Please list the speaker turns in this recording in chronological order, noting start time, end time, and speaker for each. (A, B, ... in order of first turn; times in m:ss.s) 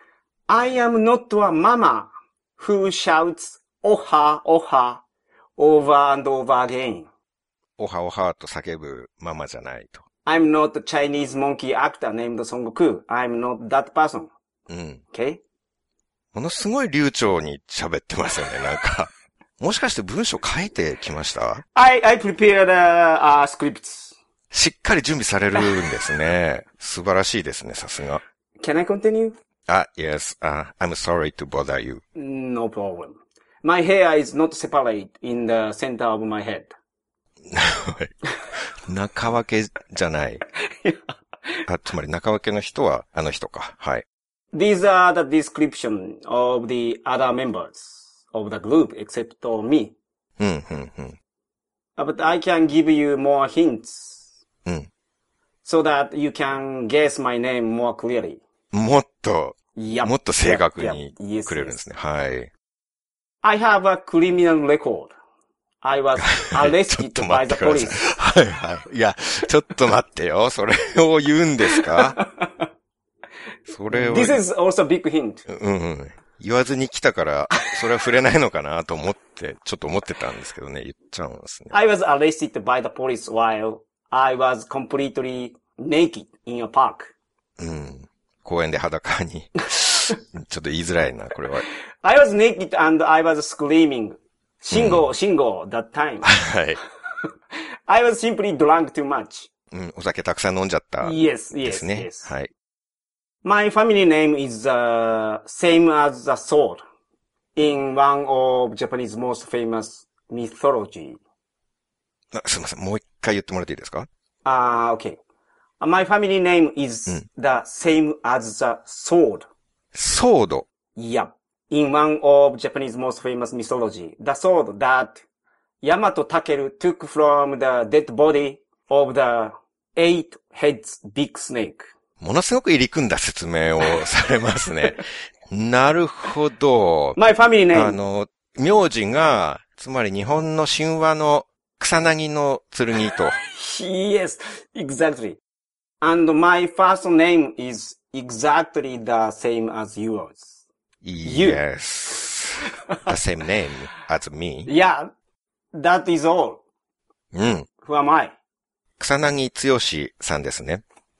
0:00.5-0:05.0 A
0:05.6-0:07.1 A
0:07.8-0:10.0 B
0:10.2-0:14.3 A
0:14.7-0:15.0 B
0:15.1-0:15.4 A
0:16.3-0:21.6 B
0:21.7-0:24.2 A
0:24.5-0:28.2 B
0:28.6-0:29.4 A
0:29.7-0:32.0 B
0:32.1-0:36.7 A
0:37.5-0:38.1 B
0:38.8-0:40.4 B
0:41.7-0:44.0 B
0:44.5-0:50.0 A
0:50.4-0:51.2 B
0:52.0-0:54.3 A
0:55.6-0:58.4 A
0:58.7-1:02.5 B
0:59.7-1:01.8 A
1:03.4-1:05.1 A
1:05.8-1:08.1 A
1:06.2-1:12.2 B
1:11.7-1:12.6 A
1:13.7-1:14.4 B
1:13.9-1:15.5 A
1:15.5-1:21.8 B
1:21.7-1:27.1 A
1:27.6-1:29.6 B
1:30.2-1:31.6 B
1:32.0-1:36.3 A
1:34.7-1:35.0 B
1:36.2-1:36.8 B
1:37.9-1:39.5 A
1:39.7-1:42.5 B
1:41.0-1:42.3 A
1:43.4-1:46.8 A
1:47.6-1:51.2 A
1:52.3-1:54.1 B
1:54.4-1:55.2 A
1:55.8-1:59.5 A
1:59.9-2:00.7 B
2:00.9-2:05.2 A
2:05.8-2:11.9 A
2:12.2-2:17.2 B
2:17.2-2:18.0 A
2:17.7-2:23.4 B
2:23.4-2:25.4 A
2:26.0-2:30.6 A
2:31.0-2:34.7 B
2:31.2-2:31.6 A
2:34.6-2:35.1 A
2:35.7-2:36.6 A
2:37.3-2:37.7 B
2:37.8-2:38.3 A
2:39.0-2:40.8 B